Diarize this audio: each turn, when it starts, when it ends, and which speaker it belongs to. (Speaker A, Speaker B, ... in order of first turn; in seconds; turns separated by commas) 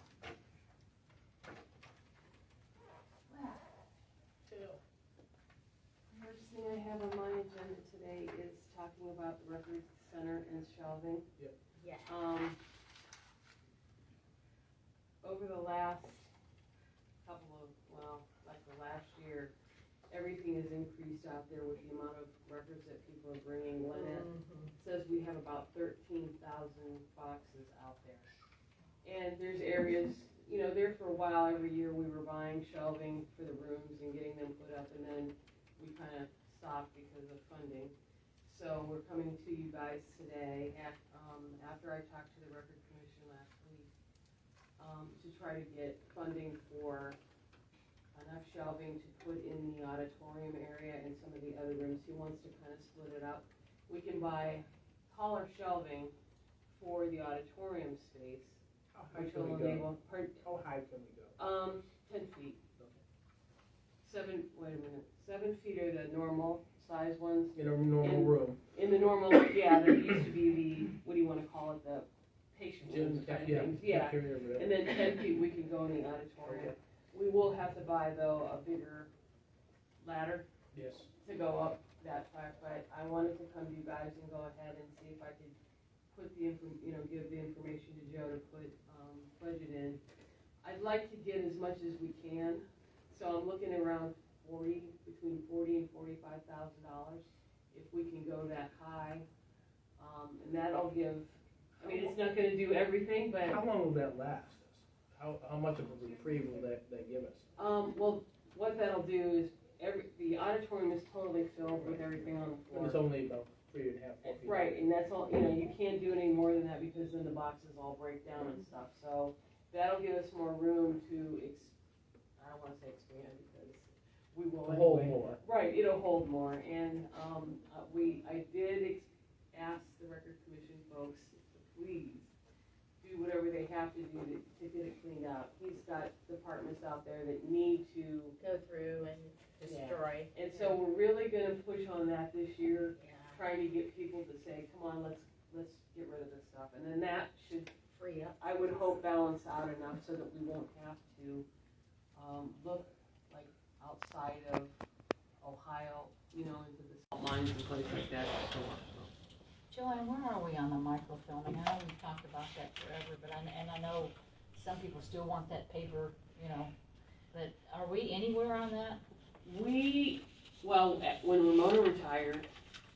Speaker A: 3.3-3.6, Speaker B: 4.5-4.8, Speaker C: 6.1-11.3, Speaker D: 11.8-12.2, Speaker C: 12.1-12.6, Speaker C: 15.2-16.3, Speaker C: 17.2-19.6, Speaker C: 20.1-28.3, Speaker D: 23.9-24.7, Speaker C: 29.0-43.9, Speaker C: 44.8-47.2, Speaker C: 48.1-56.1, Speaker C: 56.7-58.6, Speaker B: 58.9-61.4, Speaker C: 59.1-60.4, Speaker C: 61.4-62.6, Speaker C: 64.0-79.1, Speaker B: 67.5-68.6, Speaker B: 72.8-74.8, Speaker B: 76.4-76.8, Speaker C: 80.0-80.5, Speaker B: 80.7-81.1, Speaker C: 81.2-85.5, Speaker C: 86.1-90.0, Speaker C: 90.6-99.3, Speaker C: 100.0-103.6, Speaker B: 101.8-102.1, Speaker B: 103.5-107.5, Speaker C: 107.6-113.0, Speaker B: 111.8-114.7, Speaker C: 114.2-121.7, Speaker C: 122.4-132.3, Speaker B: 124.6-125.4, Speaker C: 133.0-138.4, Speaker D: 138.4-140.8, Speaker C: 139.6-147.7, Speaker D: 143.0-143.5, Speaker D: 147.9-148.6, Speaker C: 148.4-151.5, Speaker C: 152.2-154.7, Speaker C: 155.4-159.1, Speaker A: 159.7-166.7, Speaker A: 167.3-169.0, Speaker C: 169.4-172.5